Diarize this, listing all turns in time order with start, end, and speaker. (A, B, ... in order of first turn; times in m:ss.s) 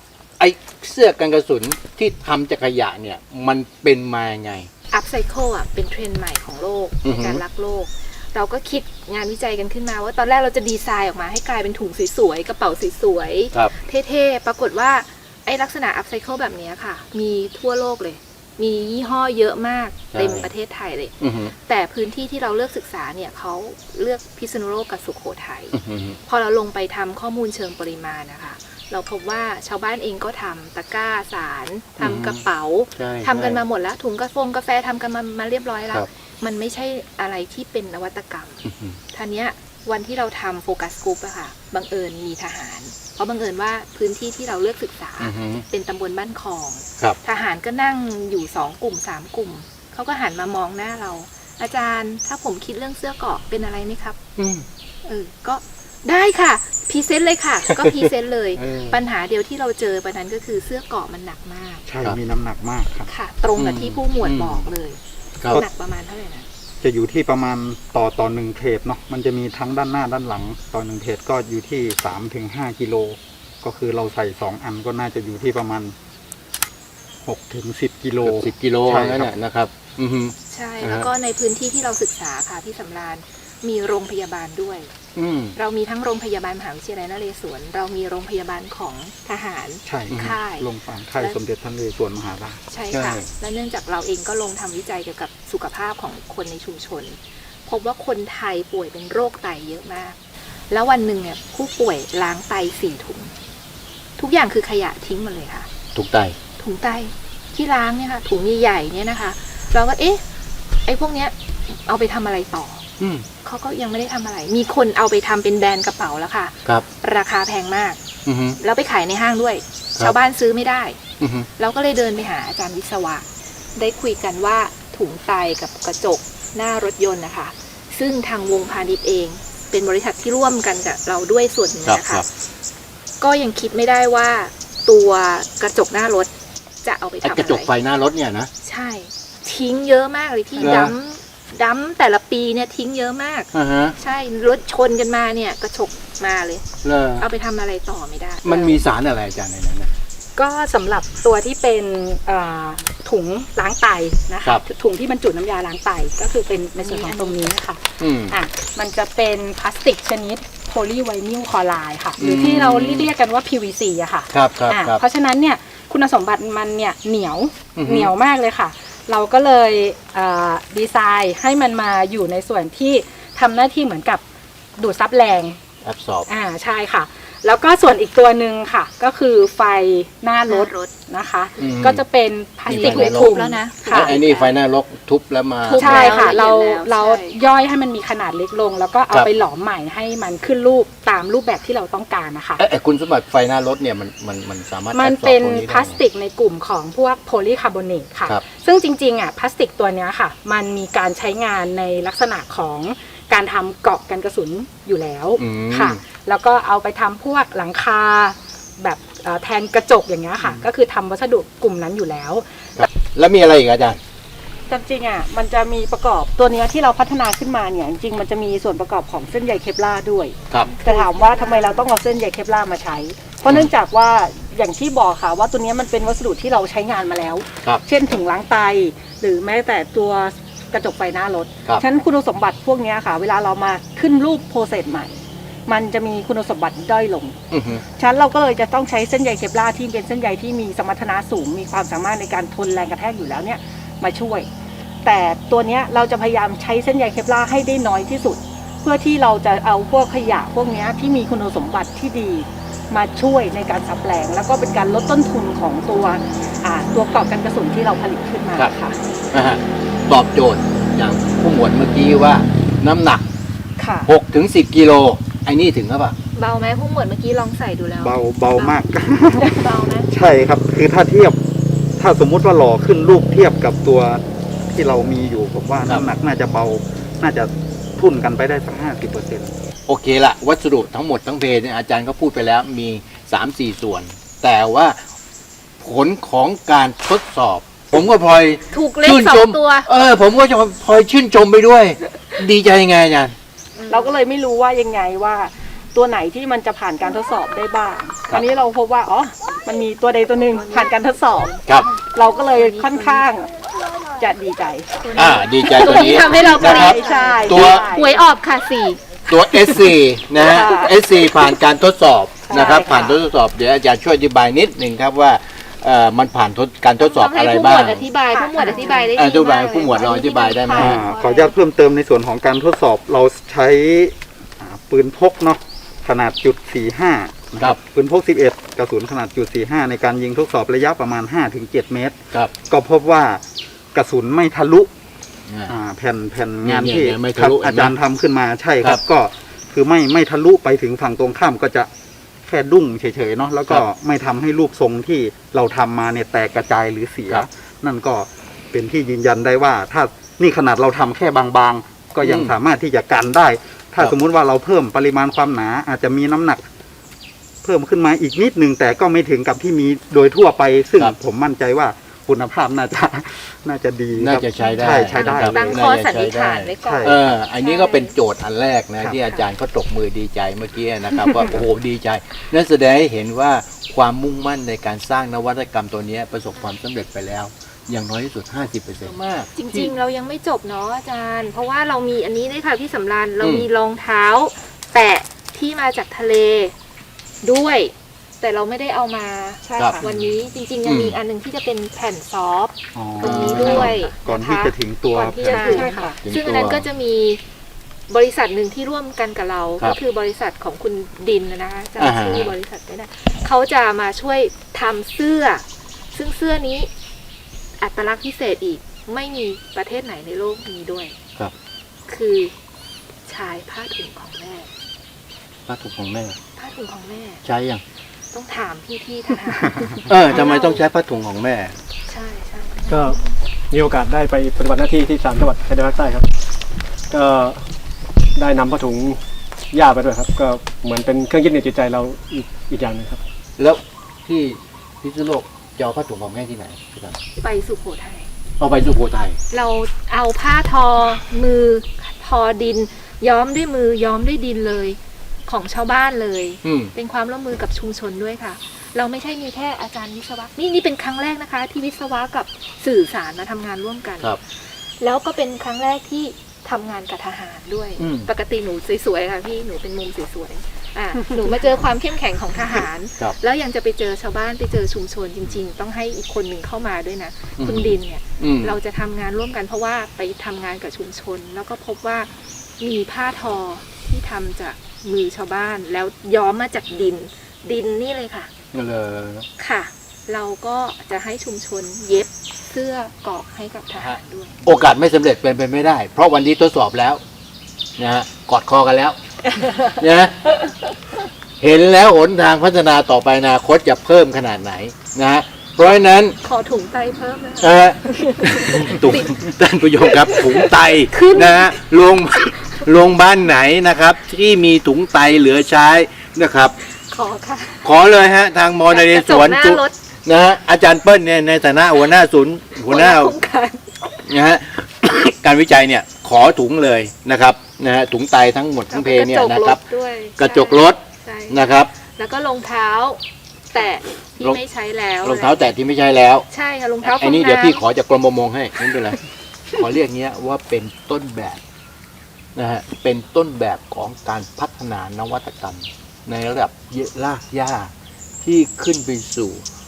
0:00.4-0:04.7 A
0:04.9-0:54.2 B
0:07.0-0:07.4 A
0:20.1-0:20.5 A
0:21.2-0:21.5 A
0:25.7-0:26.2 A
0:32.0-0:32.4 A
0:33.0-0:33.6 A
0:38.6-0:39.0 A
0:45.2-0:45.6 A
0:54.4-0:54.7 A
0:55.0-1:01.8 B
0:58.6-0:59.0 A
1:01.9-1:03.1 C
1:03.1-1:05.0 B
1:03.5-1:04.7 A
1:05.5-1:06.5 B
1:06.8-1:15.9 C
1:17.2-1:19.3 C
1:18.2-1:21.1 A
1:20.5-1:24.9 B
1:25.2-1:25.6 A
1:25.6-1:30.7 B
1:29.8-1:32.6 C
1:30.1-1:30.4 A
1:32.7-1:40.2 B
1:32.9-1:33.3 A
1:40.7-1:43.3 B
1:44.2-1:45.7 B
1:45.9-1:46.4 A
1:46.6-1:50.2 B
1:50.8-1:52.8 B
1:53.0-1:53.2 A
1:53.4-1:58.0 B
1:58.2-1:58.6 A
1:58.6-2:01.0 B
2:01.2-2:01.5 A
2:01.6-2:12.2 B
2:11.8-2:12.3 A
2:13.2-2:16.3 B
2:16.8-2:17.7 B
2:17.2-2:18.5 A
2:18.6-2:26.7 B
2:20.6-2:20.9 A
2:23.5-2:24.0 A
2:26.8-2:27.3 A
2:27.2-2:28.9 B
2:28.4-2:29.9 A
2:30.4-2:54.2 D
2:36.8-2:37.5 B
2:38.0-2:38.4 A
2:42.2-2:43.1 A
2:44.3-2:45.0 A
2:47.8-2:48.1 A
2:54.8-2:55.6 D
2:55.8-2:56.3 A
2:56.3-3:04.1 D
3:00.5-3:00.9 B
3:01.6-3:02.0 A
3:02.7-3:03.3 A
3:02.7-3:04.6 B
3:03.9-3:06.2 A
3:05.6-3:07.4 B
3:05.7-3:12.6 D
3:12.6-3:16.0 A
3:14.9-3:32.8 D
3:25.4-3:26.0 A
3:32.8-3:34.0 A
3:34.7-3:55.1 E
3:40.7-3:41.8 B
3:55.7-3:57.4 E
3:57.5-3:57.8 A
3:58.0-4:04.5 E
4:05.0-4:19.0 E
4:19.3-4:23.3 A
4:23.8-4:24.1 E
4:24.0-4:26.1 A
4:26.3-4:30.1 B
4:28.0-4:31.4 C
4:32.0-4:39.5 C
4:39.9-4:45.0 A
4:45.8-4:53.3 A
4:48.7-4:49.9 B
4:53.7-4:54.2 B
4:53.9-5:01.6 E
5:02.1-5:03.5 E
5:02.5-5:03.2 B
5:04.2-5:08.1 E
5:05.1-5:07.9 A
5:05.2-5:09.0 B
5:09.3-5:18.1 A
5:10.4-5:11.0 E
5:12.5-5:13.2 E
5:17.0-5:21.0 B
5:18.3-5:19.1 E
5:19.1-5:21.0 A
5:20.6-5:21.5 E
5:20.8-5:34.9 C
5:35.5-5:35.7 A
5:35.7-5:41.9 C
5:36.6-5:37.9 A
5:42.5-5:56.6 C
5:52.2-5:52.6 A
5:57.6-6:05.8 C
6:04.2-6:19.9 A
6:04.6-6:08.1 B
6:06.8-6:07.2 C
6:19.5-6:26.7 B
6:23.4-6:23.7 A
6:27.4-6:37.4 B
6:29.6-6:30.0 E
6:29.8-6:30.0 A
6:30.8-6:31.2 A
6:32.9-6:35.8 C
6:33.2-6:34.0 A
6:35.4-6:36.9 A
6:35.4-6:36.2 E
6:38.1-6:46.9 B
6:42.0-6:42.5 A
6:47.8-6:51.2 B
6:52.1-6:52.5 B
6:53.3-6:54.7 B
6:55.7-6:56.4 A
6:56.6-6:57.4 B
6:57.4-6:57.8 A
6:58.3-7:00.8 B
7:00.1-7:01.8 A
7:02.1-7:03.3 B
7:02.9-7:03.2 F
7:03.7-7:06.2 F
7:07.1-7:07.6 F
7:08.4-7:09.2 F
7:09.7-7:13.2 F
7:13.6-7:17.2 A
7:17.4-7:18.3 B
7:18.6-7:19.4 A
7:19.5-7:58.5 B
7:26.6-7:26.9 A
7:38.0-7:38.3 A
7:47.6-7:48.8 A
7:58.7-7:59.5 A
7:59.6-8:04.6 B
8:04.0-8:07.2 A
8:08.0-8:09.2 A
8:09.8-8:10.5 A
8:11.6-8:16.4 A
8:16.4-8:19.3 B
8:17.6-8:26.8 A
8:20.1-8:21.8 B
8:26.9-8:27.9 B
8:27.8-8:33.4 A
8:28.9-8:29.9 B
8:32.8-8:34.2 B
8:34.2-8:39.8 A
8:38.9-8:43.2 B
8:40.4-8:41.9 A
8:43.7-8:45.7 B
8:45.2-8:46.4 A
8:46.5-8:47.8 B
8:47.0-8:49.2 A
8:49.7-8:51.6 A
8:52.6-8:57.9 A
8:58.4-8:59.6 A